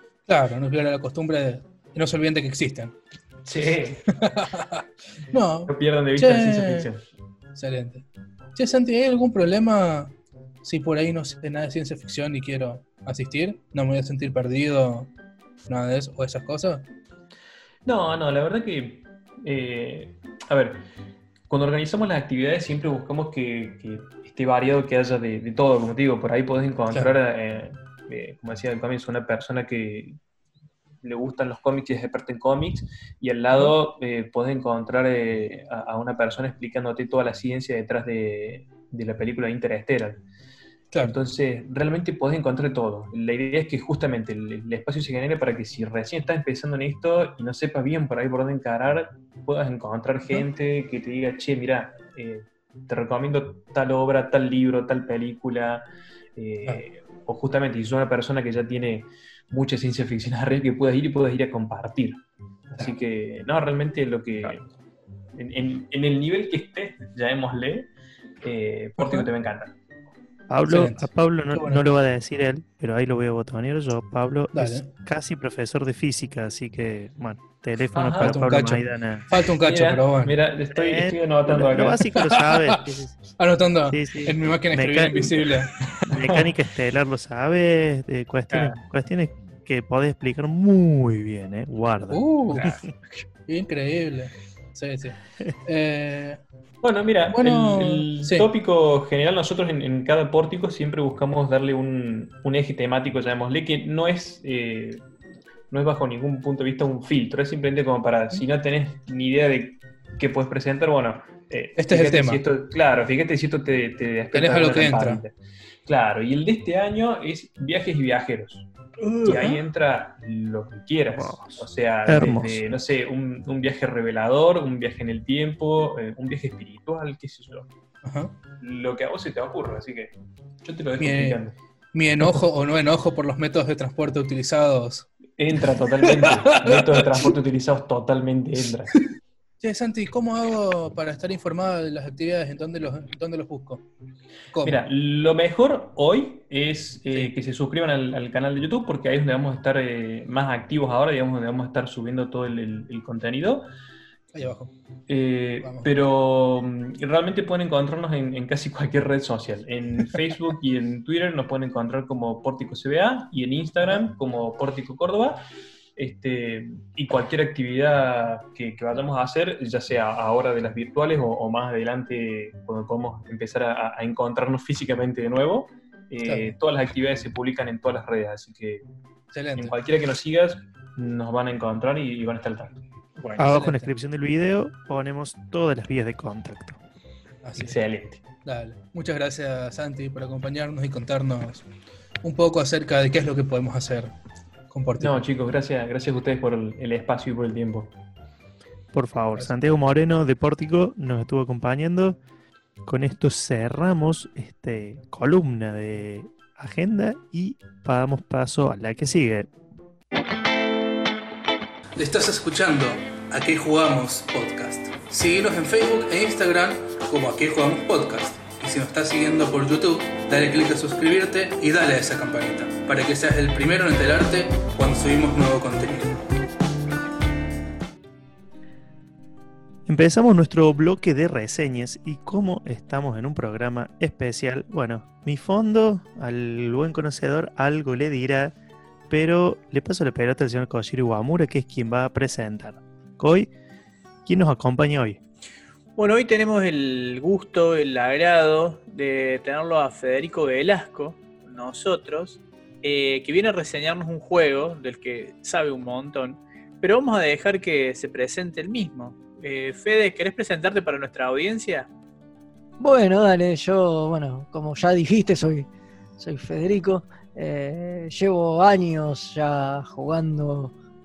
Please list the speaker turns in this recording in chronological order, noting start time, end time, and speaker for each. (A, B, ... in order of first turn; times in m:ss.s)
0:00.3-0:03.0 A
0:03.4-0:04.1 B
0:04.1-0:06.9 A
0:05.7-0:07.0 B
0:07.5-0:15.1 A
0:15.7-0:16.8 A
0:17.8-0:20.8 B
0:21.5-0:30.2 B
0:31.0-0:40.2 B
0:41.0-1:02.2 B
1:02.8-1:04.7 B
1:05.3-1:07.9 B
1:08.4-1:09.7 B
1:09.0-1:09.3 A
1:10.5-1:19.3 C
1:10.7-1:11.8 A
1:14.5-1:14.9 A
1:17.9-1:18.4 B
1:18.1-1:20.3 A
1:19.6-1:22.1 B
1:20.7-1:23.2 C
1:22.2-1:25.7 A
1:23.9-1:25.4 C
1:25.9-1:26.5 B
1:26.1-1:32.8 C
1:32.1-1:32.7 A
1:33.5-1:36.4 A
1:36.8-1:45.0 B
1:37.3-1:38.5 A
1:45.7-1:58.7 B
1:51.8-1:52.4 A
1:54.3-1:55.2 A
1:59.0-1:59.6 D
1:59.2-2:07.7 B
2:01.1-2:02.6 C
2:08.0-2:08.3 A
2:08.6-2:11.5 B
2:11.0-2:11.4 A
2:11.9-2:17.3 A
2:15.4-2:19.0 B
2:19.6-2:23.8 A
2:24.5-2:24.8 A
2:24.6-2:33.7 B
2:34.3-2:34.7 A
2:35.1-2:45.4 B
2:35.6-2:35.9 A
2:46.0-2:58.8 B
2:56.2-2:56.6 A
2:59.3-2:59.8 A
2:59.6-3:02.8 B
3:03.2-3:03.4 D
3:03.4-3:06.8 C
3:03.4-3:03.9 A
3:07.4-3:11.7 A
3:07.6-3:08.2 B
3:12.2-3:14.1 A
3:14.7-3:15.2 A
3:15.0-3:17.9 B
3:18.9-3:22.2 C
3:19.4-3:19.6 A
3:22.8-3:29.5 C
3:32.0-3:46.2 A
3:49.9-3:58.5 C
3:59.1-4:03.5 C
4:04.2-4:05.2 C
4:06.0-4:21.9 D
4:22.8-4:30.7 E